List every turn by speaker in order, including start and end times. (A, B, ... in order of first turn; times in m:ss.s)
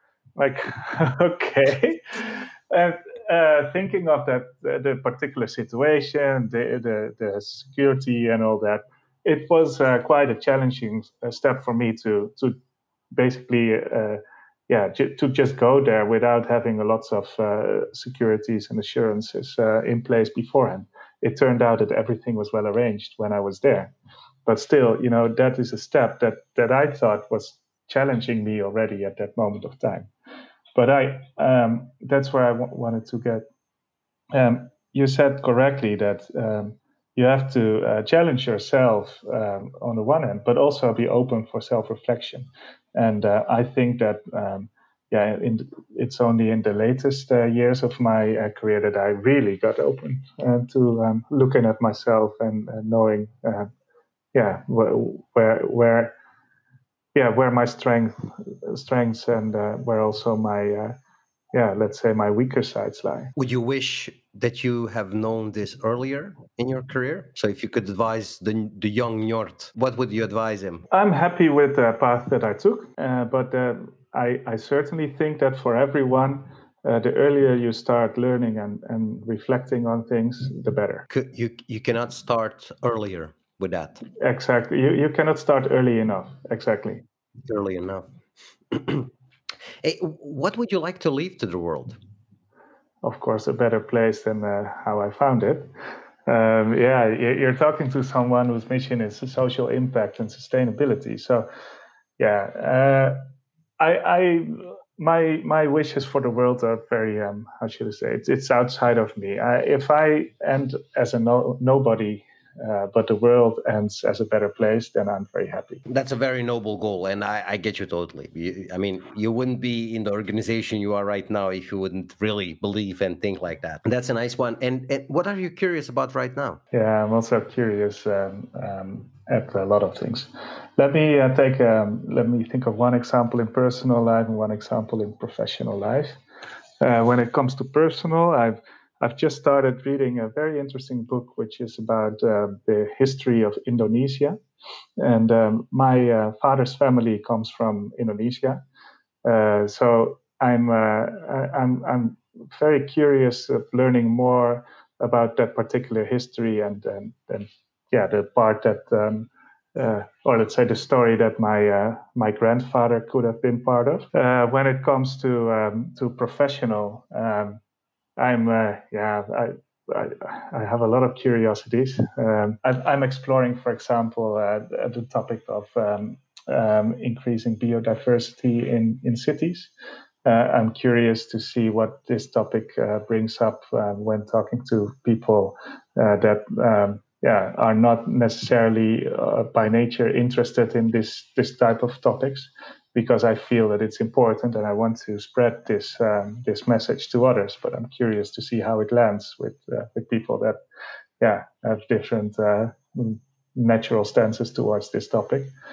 0:00.4-0:12.6 A
0:13.1-0:23.9 A
0:24.4-0:30.1 A
0:30.7-0:33.4 A
0:34.3-0:53.7 A
0:54.3-0:56.1 A
0:57.1-1:01.0 A
1:01.5-1:03.3 A
1:03.4-1:10.8 B
1:10.9-1:21.1 A
1:21.1-1:24.0 B
1:24.2-1:27.0 A
1:27.5-1:28.1 B
1:28.7-1:29.1 B
1:29.8-1:32.0 B
1:33.0-1:35.7 A
1:36.2-1:41.5 A
1:42.2-1:43.2 A
1:43.8-1:55.8 A
1:55.8-2:06.6 B
2:06.7-2:16.2 A
2:16.8-2:24.4 A
2:25.0-2:28.6 A
2:29.2-2:47.6 A
2:48.2-2:59.7 A
3:00.2-3:20.6 A
3:21.2-3:25.5 A